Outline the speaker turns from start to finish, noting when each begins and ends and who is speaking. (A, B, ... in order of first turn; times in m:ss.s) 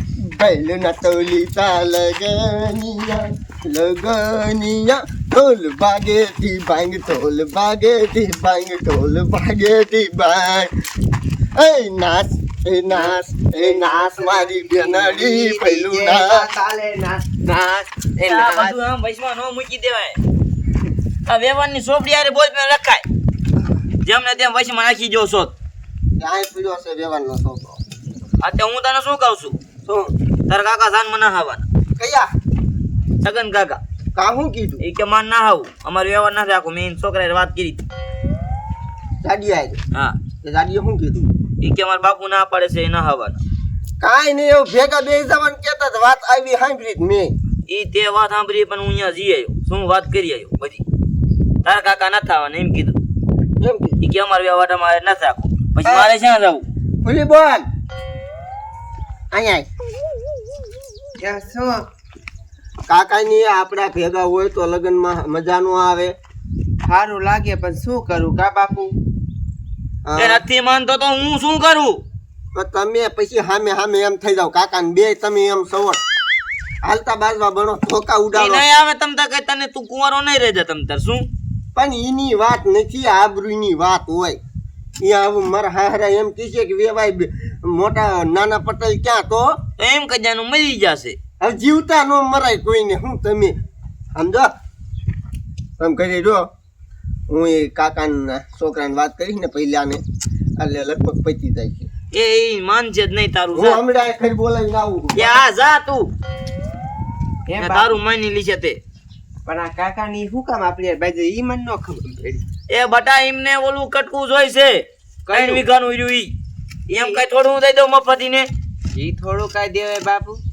0:00.2-0:10.7 A
0:11.6-0:16.5 A
0:15.0-0:17.9 B
0:18.2-0:20.2 C
0:21.3-0:23.0 C
0:24.0-0:25.5 C
0:26.2-0:27.8 A
0:28.4-0:29.6 C
0:29.8-0:30.1 A
0:30.5-0:31.6 C
0:32.0-0:32.3 A
0:33.2-0:33.8 C
0:34.2-0:34.8 A
0:34.8-0:37.8 C
0:39.2-0:39.8 A
0:40.4-0:41.3 A
0:41.6-0:43.4 C
0:44.0-0:47.4 A
0:47.7-0:50.8 C
0:51.6-0:53.0 C
0:53.6-0:54.0 A
0:54.0-0:56.6 C
0:55.8-0:56.1 A
0:57.0-0:57.7 A
0:59.3-0:59.7 A
1:01.2-1:01.8 B
1:02.9-1:06.2 A
1:06.9-1:08.9 B
1:10.0-1:10.4 A
1:10.2-1:12.0 C
1:12.6-1:16.0 A
1:16.8-1:18.7 A
1:18.4-1:21.3 C
1:21.8-1:24.4 A
1:25.0-1:29.6 A
1:29.8-1:31.2 C
1:31.4-1:33.6 A
1:34.2-1:34.5 A
1:35.8-1:36.4 A
1:37.3-1:40.0 A
1:40.6-1:41.9 A
1:42.1-1:43.8 C
1:43.5-1:45.4 A
1:45.2-1:46.1 C
1:47.5-1:47.9 B
1:47.6-1:48.8 C
1:49.5-1:52.4 B
1:52.7-1:56.3 C
1:55.3-1:55.6 B
1:56.9-1:58.5 C
1:59.0-2:00.4 B